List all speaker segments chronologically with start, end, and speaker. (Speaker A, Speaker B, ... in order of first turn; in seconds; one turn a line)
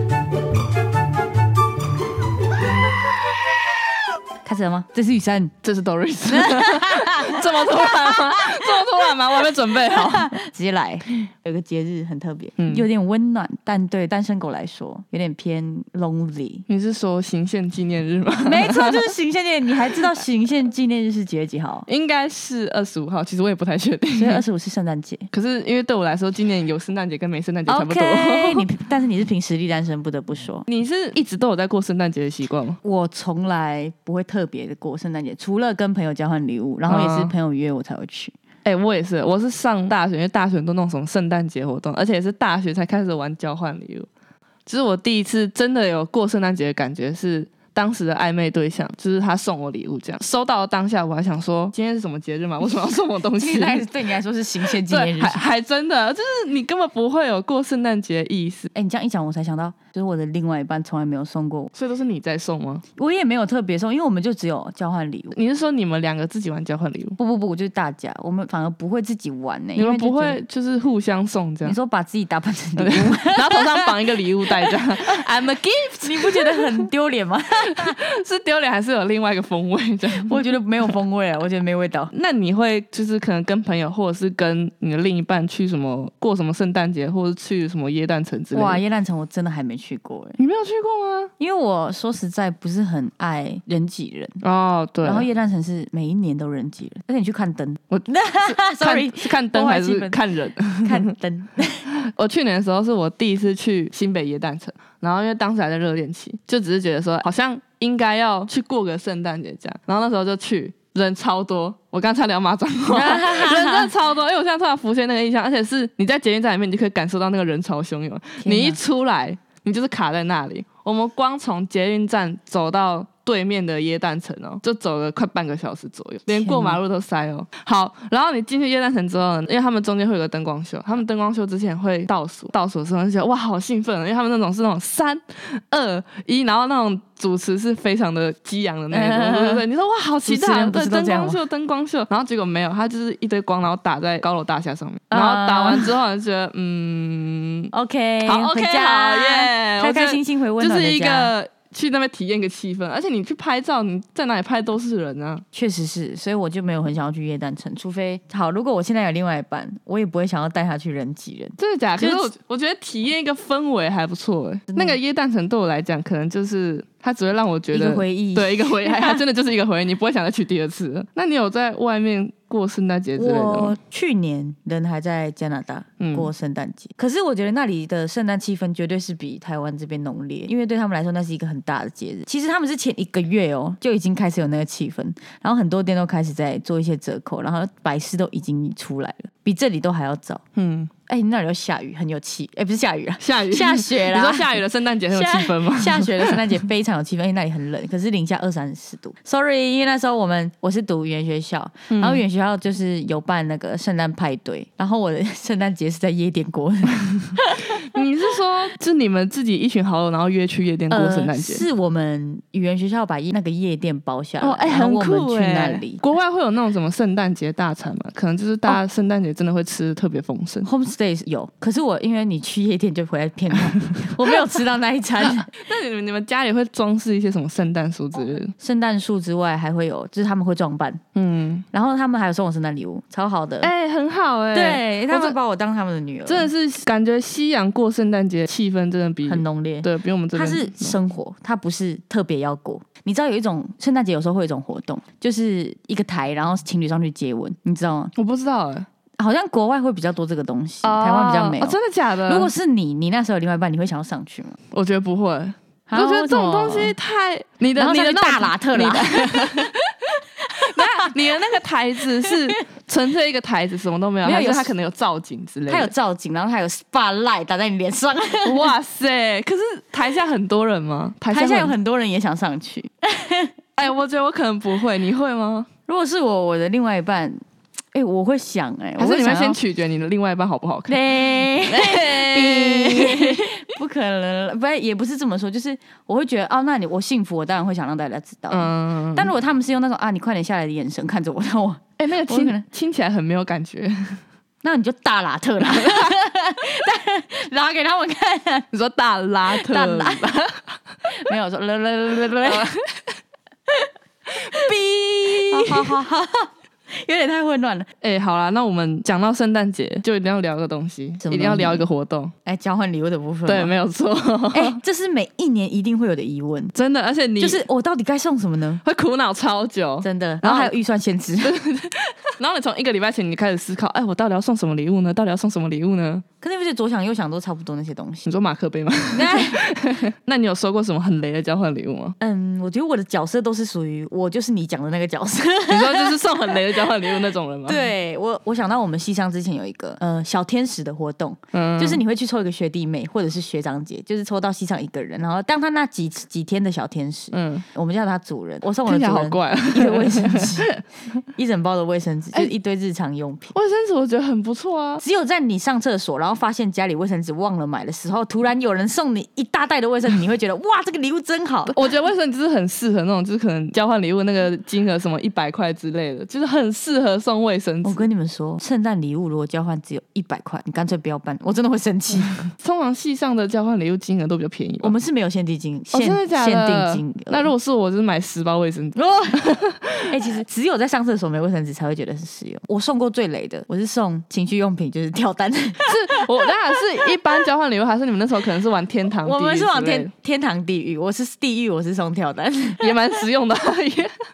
Speaker A: 4.4-5.5
Speaker B: 5.6-10.3
Speaker A: 6.3-8.0
Speaker A: 9.9-16.6
Speaker B: 12.6-12.8
Speaker B: 16.7-19.1
Speaker A: 18.4-21.9
Speaker B: 21.9-24.4
Speaker A: 24.1-25.3
Speaker B: 25.3-28.7
Speaker A: 27.7-30.7
Speaker B: 30.7-32.8
Speaker A: 32.8-38.3
Speaker B: 36.9-37.3
Speaker B: 38.6-44.1
Speaker B: 44.6-53.8
Speaker A: 53.4-55.4
Speaker B: 54.7-58.7
Speaker A: 58.7-61.7
Speaker B: 61.7-62.8
Speaker A: 63.0-65.3
Speaker B: 65.3-67.2
Speaker A: 67.2-70.4
Speaker B: 69.8-71.8
Speaker A: 71.6-73.9
Speaker B: 72.8-76.8
Speaker A: 76.0-78.0
Speaker B: 77.6-80.4
Speaker A: 80.2-82.1
Speaker B: 82.1-88.8
Speaker A: 88.5-90.4
Speaker B: 90.4-91.3
Speaker A: 91.4-94.4
Speaker B: 94.4-95.3
Speaker A: 95.0-100.2
Speaker B: 97.9-101.1
Speaker A: 100.8-101.9
Speaker B: 101.9-147.7
Speaker A: 112.9-113.9
Speaker A: 118.4-118.8
Speaker A: 126.3-126.8
Speaker A: 138.9-139.6
Speaker A: 140.2-141.4
Speaker A: 145.1-145.9
Speaker A: 147.7-151.3
Speaker B: 148.2-155.4
Speaker A: 155.5-162.3
Speaker B: 161.6-173.8
Speaker A: 164.7-165.0
Speaker A: 167.7-169.2
Speaker A: 173.2-190.4
Speaker B: 176.0-176.3
Speaker B: 190.6-190.9
Speaker A: 191.1-207.8
Speaker B: 193.2-196.6
Speaker B: 201.9-202.2
Speaker B: 207.7-211.6
Speaker A: 210.9-216.0
Speaker B: 214.4-220.7
Speaker A: 220.6-225.5
Speaker B: 225.5-228.5
Speaker A: 228.1-231.0
Speaker B: 231.1-231.6
Speaker A: 231.7-233.7
Speaker B: 233.6-235.4
Speaker A: 234.5-236.5
Speaker B: 236.3-240.9
Speaker A: 239.3-248.1
Speaker B: 248.2-248.9
Speaker A: 249.2-254.6
Speaker B: 250.8-252.5
Speaker B: 254.7-259.7
Speaker A: 255.9-256.9
Speaker A: 257.8-261.5
Speaker B: 260.5-265.9
Speaker A: 262.2-262.5
Speaker A: 264.2-264.7
Speaker A: 265.7-268.7
Speaker B: 268.4-271.8
Speaker A: 271.3-273.5
Speaker B: 273.8-275.7
Speaker A: 275.9-277.4
Speaker A: 277.9-279.6
Speaker B: 279.0-283.5
Speaker A: 280.9-292.6
Speaker B: 288.5-289.3
Speaker B: 292.0-294.2
Speaker A: 294.6-298.7
Speaker B: 298.7-300.6
Speaker A: 299.5-300.3
Speaker A: 301.1-302.7
Speaker B: 302.4-303.0
Speaker B: 304.4-306.0
Speaker A: 304.5-307.9
Speaker B: 308.0-312.3
Speaker A: 311.2-311.9
Speaker A: 312.4-313.7
Speaker B: 313.5-314.8
Speaker A: 314.5-316.7
Speaker B: 316.7-317.6
Speaker A: 317.4-318.8
Speaker B: 318.8-320.7
Speaker A: 320.0-321.6
Speaker B: 321.4-326.2
Speaker A: 326.4-328.3
Speaker B: 328.2-332.1
Speaker A: 329.1-329.6
Speaker A: 332.2-336.9
Speaker B: 335.7-337.9
Speaker A: 337.6-350.8
Speaker B: 341.5-342.0
Speaker B: 347.3-347.6
Speaker B: 348.9-350.8
Speaker A: 351.3-353.5
Speaker B: 353.5-355.0
Speaker A: 355.0-361.8
Speaker B: 361.7-368.1
Speaker A: 367.8-372.4
Speaker B: 372.5-374.9
Speaker A: 374.8-377.5
Speaker B: 375.9-380.1
Speaker A: 378.9-379.6
Speaker A: 380.1-386.5
Speaker B: 385.9-390.1
Speaker A: 389.2-393.2
Speaker B: 392.8-394.1